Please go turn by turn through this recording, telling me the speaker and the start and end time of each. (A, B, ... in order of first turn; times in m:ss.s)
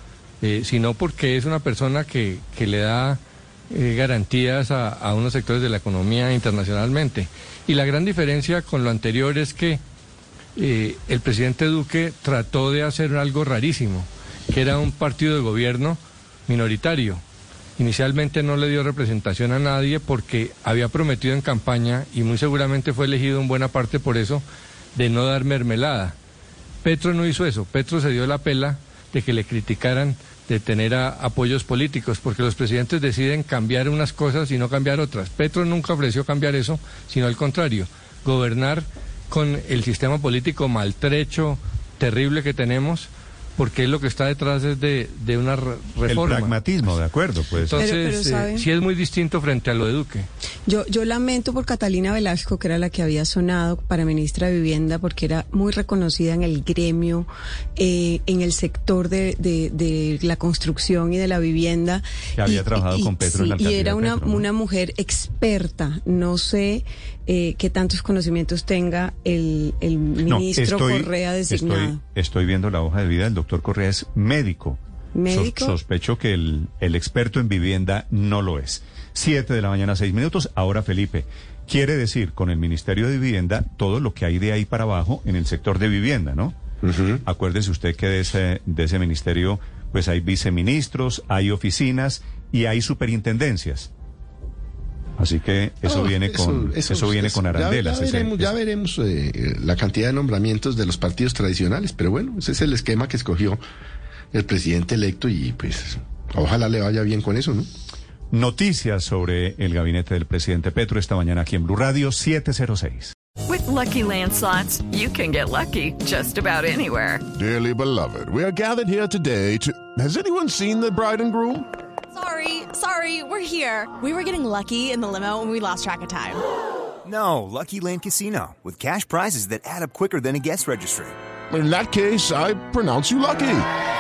0:00.4-0:03.2 A
0:03.7-0:09.8 A
0:10.6-0:17.2 A
0:17.8-0:24.4 A
0:25.0-0:26.2 A
0:26.8-0:46.6 A
0:46.1-0:47.9 B
0:47.7-0:50.3 A
0:47.8-0:48.7 C
0:50.7-1:12.0 C
1:02.4-1:04.5 B
1:10.3-1:26.6 B
1:15.2-1:15.8 C
1:26.8-1:27.2 D
1:27.2-1:33.9 B
1:35.2-1:38.5 B
1:35.8-1:43.6 D
1:44.3-1:47.7 D
1:48.3-1:53.2 B
1:53.5-1:57.2 E
1:53.6-1:54.8 F
1:57.3-2:01.7 G
2:02.2-2:06.4 F
2:07.0-2:11.2 H
2:11.5-2:13.7 G